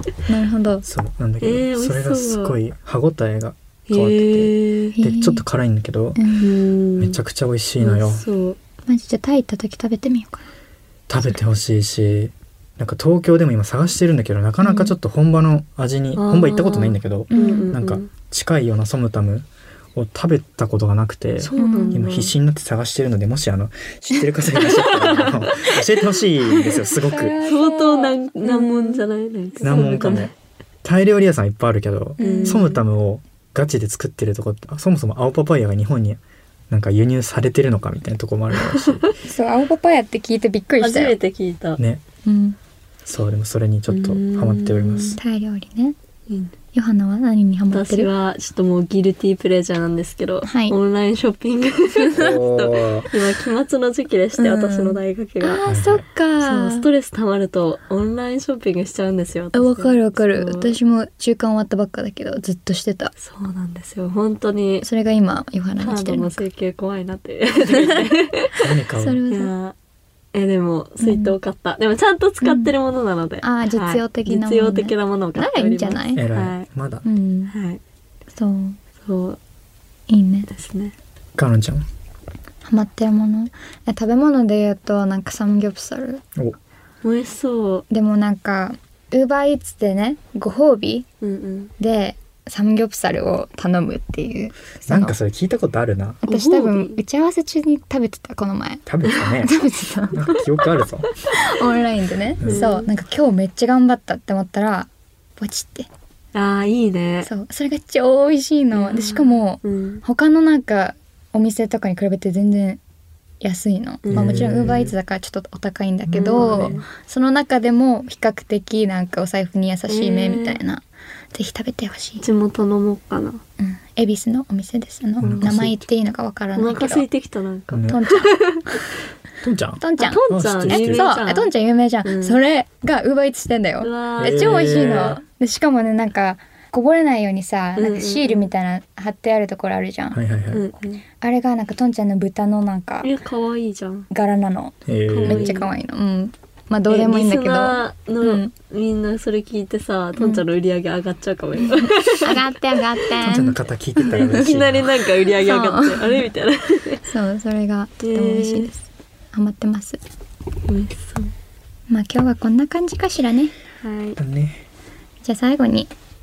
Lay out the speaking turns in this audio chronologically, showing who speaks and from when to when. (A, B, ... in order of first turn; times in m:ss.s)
0:00.3-0:00.8 A
0:00.8-0:06.2 B
0:01.4-0:02.6 C
0:03.9-0:05.0 C
0:05.0-0:05.4 A
0:06.2-0:06.5 A
0:06.4-0:07.2 C
0:07.0-0:08.3 B
0:07.8-0:08.6 C
0:08.9-0:10.5 A
0:11.1-0:27.4 B
0:14.6-0:14.9 A
0:16.2-0:18.1 C
0:17.3-0:17.7 A
0:21.4-0:22.3 C
0:21.6-0:22.0 A
0:24.6-0:25.8 C
0:27.0-0:29.0 A
0:27.4-0:30.3 C
0:29.6-0:30.2 A
0:29.6-0:30.3 B
0:30.8-0:39.1 B
0:32.2-0:32.7 A
0:32.2-0:32.8 C
0:38.7-0:39.1 C
0:39.2-0:41.2 A
0:40.8-0:41.8 C
0:41.8-0:42.0 B
0:42.2-0:42.6 A
0:43.0-0:45.2 B
0:43.9-0:45.2 C
0:45.2-0:46.0 A
0:46.7-0:48.1 A
0:47.7-0:55.6 C
0:50.4-0:50.8 A
0:52.1-0:53.1 B
0:54.4-0:56.9 A
0:55.6-0:56.0 B
0:56.4-1:00.8 C
0:59.5-1:03.1 A
1:03.2-1:04.9 C
1:04.8-1:06.4 A
1:05.8-1:08.6 C
1:07.7-1:08.1 A
1:08.6-1:09.2 B
1:09.0-1:09.5 A
1:09.3-1:09.8 C
1:10.3-1:16.7 C
1:11.0-1:11.4 A
1:12.4-1:12.7 A
1:13.4-1:16.2 A
1:16.2-1:17.0 B
1:17.0-1:17.5 A
1:17.5-1:17.8 C
1:18.3-1:18.8 A
1:19.0-1:19.4 C
1:20.1-1:20.5 A
1:20.5-1:21.0 C
1:21.4-1:21.8 B
1:22.6-1:26.2 A
1:27.0-1:27.9 C
1:27.9-1:31.1 A
1:31.2-1:31.7 C
1:31.8-1:35.2 A
1:34.9-1:36.2 B
1:36.2-1:40.2 A
1:36.3-1:37.0 C
1:38.9-1:39.5 B
1:40.1-1:41.1 B
1:41.3-1:45.9 A
1:42.4-1:42.7 B
1:42.4-1:42.9 C
1:46.3-1:47.3 C
1:47.2-1:52.8 A
1:48.7-1:50.0 C
1:53.4-2:02.2 A
1:54.0-1:54.5 C
1:54.1-1:54.9 B
1:56.1-1:56.9 C
1:56.4-1:56.8 B
1:59.9-2:00.6 C
2:02.2-2:03.4 C
2:03.6-2:07.1 A
2:05.2-2:05.8 B
2:06.6-2:08.8 C
2:07.7-2:08.0 B
2:07.9-2:08.4 A
2:09.4-2:11.1 B
2:09.8-2:20.2 A
2:10.0-2:11.5 C
2:12.0-2:12.4 C
2:13.8-2:15.2 C
2:14.2-2:15.2 B
2:17.8-2:18.5 C
2:20.1-2:20.7 B
2:20.5-2:21.0 C
2:21.2-2:23.1 A
2:23.0-2:24.1 C
2:24.1-2:28.5 A
2:24.9-2:25.5 B
2:25.1-2:25.7 C
2:26.9-2:32.6 C
2:30.2-2:30.4 A
2:31.6-2:34.5 A
2:33.2-2:35.1 B
2:34.0-2:37.0 C
2:35.4-2:36.3 A
2:37.1-2:40.0 A
2:38.0-2:38.7 C
2:40.7-2:41.3 C
2:41.9-2:43.5 A
2:43.8-2:44.2 C
2:44.2-2:44.6 B
2:45.2-2:45.9 A